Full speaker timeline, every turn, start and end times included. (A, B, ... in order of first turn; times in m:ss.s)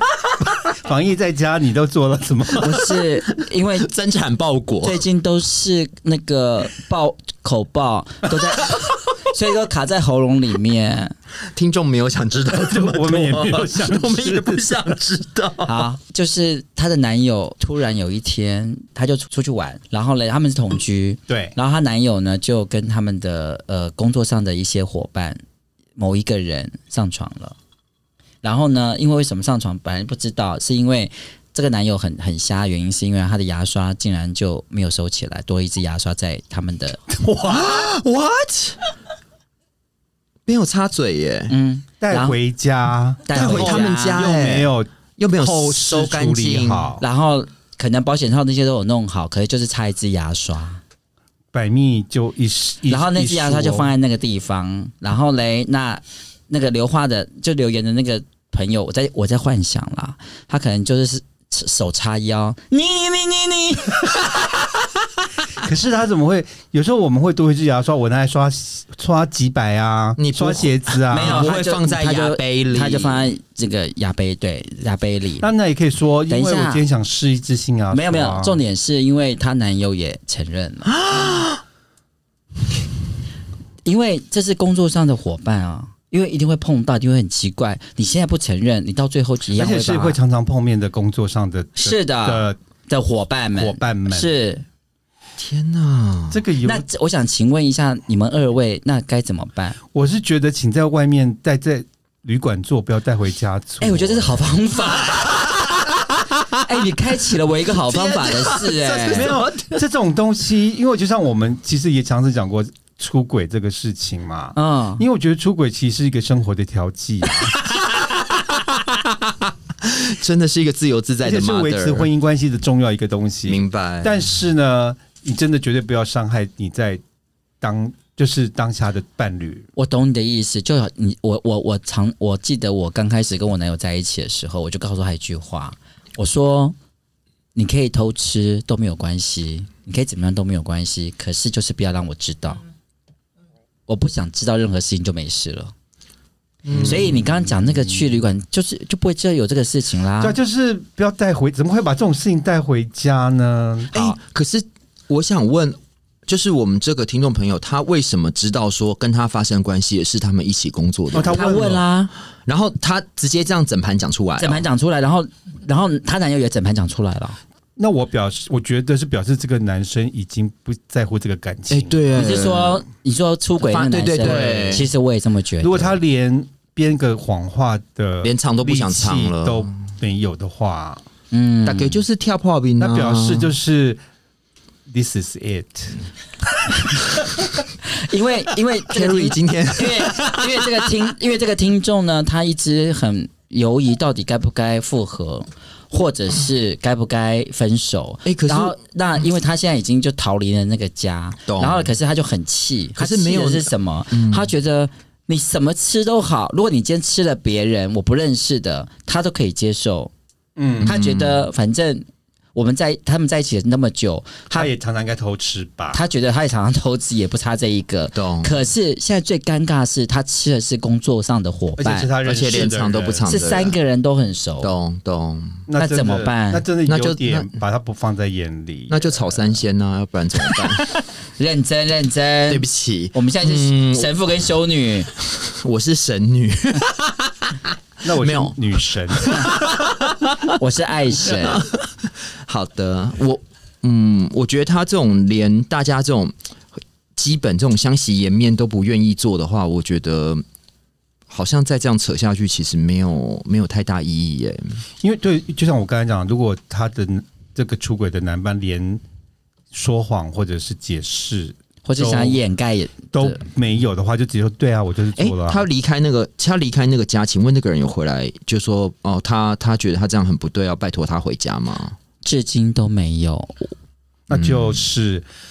0:00.7-0:02.9 A
0:02.6-0:03.9 B
0:03.4-0:05.0 C
0:04.8-0:11.2 B
0:11.5-0:15.8 C
0:12.5-0:15.0 A
0:15.6-0:25.4 B
0:21.3-0:21.6 A
0:26.0-0:27.6 B
0:28.4-0:37.0 B
0:37.1-0:38.0 A
0:37.5-0:38.8 C
0:40.5-0:41.6 C
0:41.5-0:42.4 B
0:42.0-0:47.0 A
0:43.3-0:44.3 B
0:43.3-0:46.9 C
0:47.0-0:50.8 B
0:51.5-0:53.9 A
0:52.9-1:04.2 B
1:05.6-1:11.5 A
1:10.2-1:13.3 C
1:11.1-1:15.5 B
1:15.4-1:18.6 A
1:16.3-1:16.8 B
1:17.9-1:21.0 B
1:20.9-1:21.6 C
1:23.8-1:30.2 B
1:29.5-1:32.6 A
1:31.8-1:34.6 B
1:33.6-1:34.3 A
1:35.4-1:36.4 C
1:36.3-1:36.9 A
1:36.6-1:39.8 B
1:39.9-1:44.6 A
1:43.8-1:45.6 B
1:46.6-1:49.3 B
1:47.7-1:49.9 C
1:49.1-1:57.6 A
1:54.6-1:55.0 B
1:57.4-2:02.1 C
2:01.2-2:07.0 A
2:03.5-2:04.2 C
2:07.6-2:09.7 A
2:09.8-2:16.8 B
2:17.6-2:22.6 B
2:23.9-2:25.7 B
2:26.6-2:27.3 C
2:26.7-2:27.1 A
2:26.8-2:30.4 B
2:30.2-2:34.2 A
2:33.9-2:41.6 C
2:41.1-2:41.8 A
2:41.2-2:42.1 B
2:42.5-2:44.6 C
2:44.4-2:47.4 B
2:47.8-2:52.0 A
2:51.7-2:52.8 C
2:52.2-2:56.0 B
2:53.6-2:54.9 C
2:54.3-2:54.7 A
2:55.6-3:01.0 A
2:58.2-2:59.8 C
3:01.3-3:02.0 B
3:01.7-3:03.5 C
3:02.8-3:04.0 A
3:04.9-3:06.0 A
3:07.8-3:30.1 B
3:08.9-3:10.9 C
3:18.2-3:18.8 C
3:21.5-3:21.9 C
3:23.0-3:24.5 C
3:30.6-3:31.0 A
3:30.8-3:31.5 C
3:30.8-3:34.7 B
3:34.5-3:36.0 A
3:35.9-3:42.1 B
3:38.1-3:38.5 C
3:41.8-3:43.3 A
3:42.2-3:43.8 C
3:43.2-3:44.7 B
3:44.6-3:45.7 C
3:45.7-3:49.4 A
3:45.8-3:46.6 B
3:46.9-3:47.5 C
3:48.9-3:51.0 C
3:51.4-3:55.1 B
3:52.5-3:54.2 C
3:55.1-4:00.6 C
3:58.0-3:59.6 A
4:00.6-4:01.6 B
4:01.2-4:06.3 C
4:07.2-4:10.4 C
4:11.3-4:14.8 C
4:15.0-4:19.0 A
4:19.7-4:22.4 A
4:21.8-4:23.4 B
4:23.1-4:25.7 A
4:25.2-4:32.0 C
4:32.2-4:33.7 B
4:34.3-4:35.3 A
4:34.3-4:34.8 C